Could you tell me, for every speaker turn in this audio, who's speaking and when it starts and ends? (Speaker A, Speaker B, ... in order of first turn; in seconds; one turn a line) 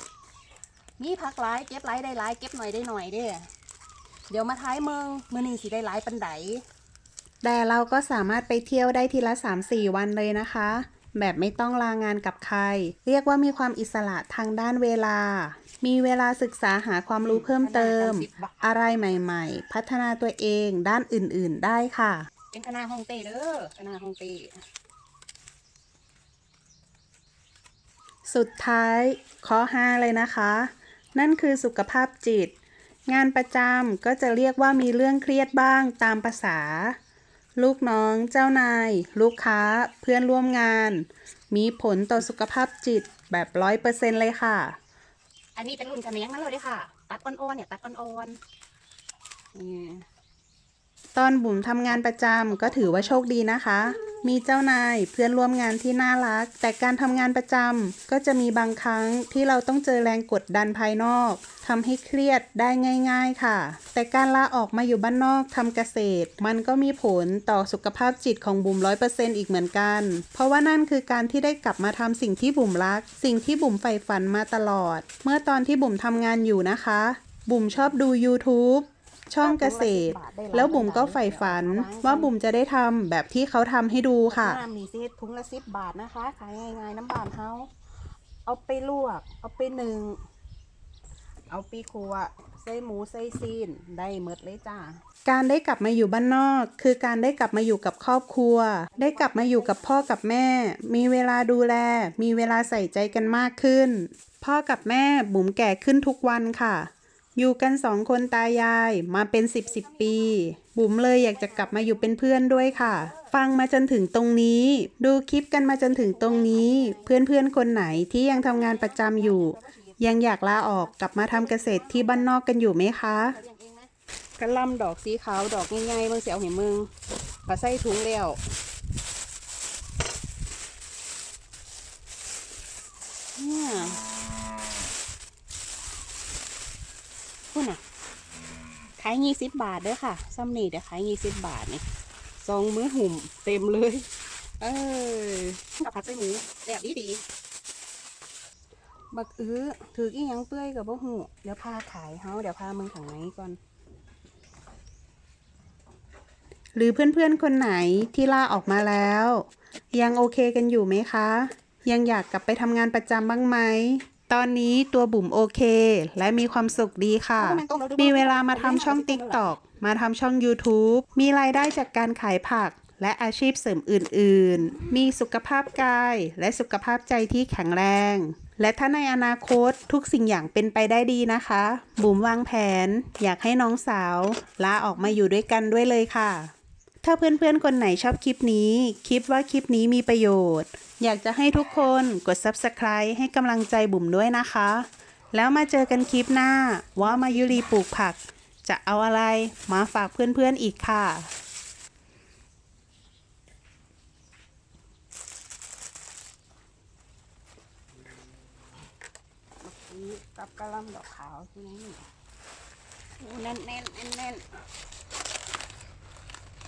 Speaker A: 1.0-3.5
Speaker A: 4.3-6.6
Speaker B: 7.4-22.3
Speaker A: 17.2-18.9
Speaker A: 22.5-24.6
Speaker B: 28.2-32.5
Speaker B: 33.1-37.0
Speaker B: 37.6-44.8
Speaker A: 45.5-48.4
Speaker A: 49.5-50.0
Speaker B: 51.1-84.6
Speaker A: 52.5-53.1
Speaker A: 79.4-82.3
Speaker A: 84.3-87.7
Speaker A: 88.4-90.2
Speaker A: 91.5-95.0
Speaker B: 95.2-123.4
Speaker A: 99.0-99.9
Speaker A: 109.7-110.3
Speaker A: 111.2-113.3
Speaker A: 115.7-117.1
Speaker A: 118.4-120.0
Speaker A: 120.7-122.3
Speaker A: 123.2-126.9
Speaker A: 127.5-128.4
Speaker A: 133.3-134.0
Speaker A: 137.5-137.8
Speaker A: 139.0-141.8
Speaker A: 142.4-144.1
Speaker A: 144.6-147.2
Speaker A: 149.1-153.6
Speaker B: 156.7-201.3
Speaker A: 167.4-169.4
Speaker A: 197.1-197.6
Speaker A: 209.6-212.1
Speaker A: 213.2-214.5